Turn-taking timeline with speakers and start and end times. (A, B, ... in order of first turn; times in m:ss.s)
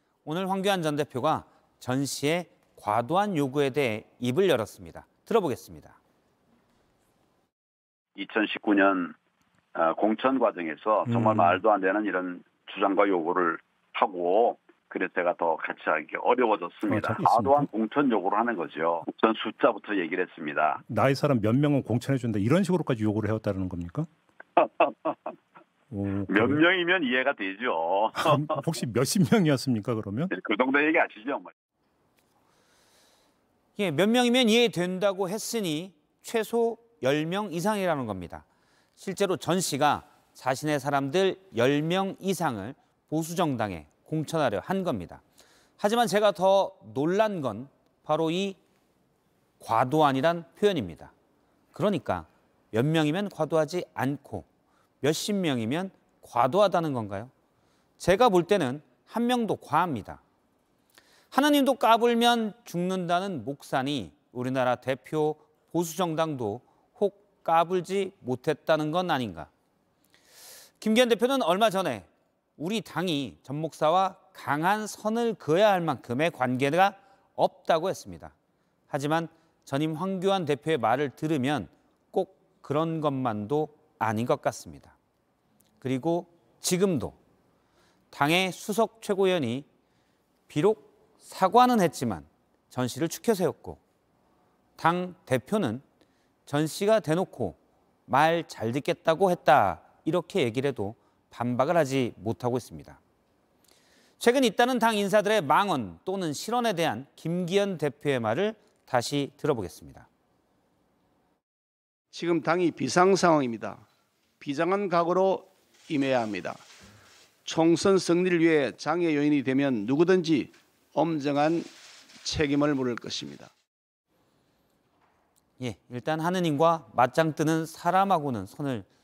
0:00.2-0:06.0 A
0:08.2-0:09.2 B
0:09.8-0:20.8 B
0:11.1-0:11.5 C
0:16.9-0:17.7 C
0:20.9-0:24.1 C
0:24.6-0:25.1 B
0:25.9-0:26.6 C
0:26.3-0:28.5 B
0:28.2-0:30.3 C
0:30.3-0:31.5 B
0:33.8-0:38.4 A
0:39.0-0:45.2 A
0:45.8-0:48.6 A
0:49.6-0:51.1 A
0:51.7-0:54.5 A
0:55.0-0:57.3 A
0:58.0-1:00.2 A
1:01.3-1:09.5 A
1:10.8-1:12.1 A
1:12.6-1:18.3 A
1:18.9-1:25.0 A
1:25.8-1:27.2 A
1:28.1-1:29.7 A
1:30.5-1:33.8 A
1:34.8-1:35.8 A
1:36.5-1:43.0 A
1:44.2-1:50.1 A
1:52.1-1:53.8 D
1:54.4-1:56.6 D
1:57.4-2:01.7 D
2:02.2-2:03.5 D
2:05.6-2:08.9 A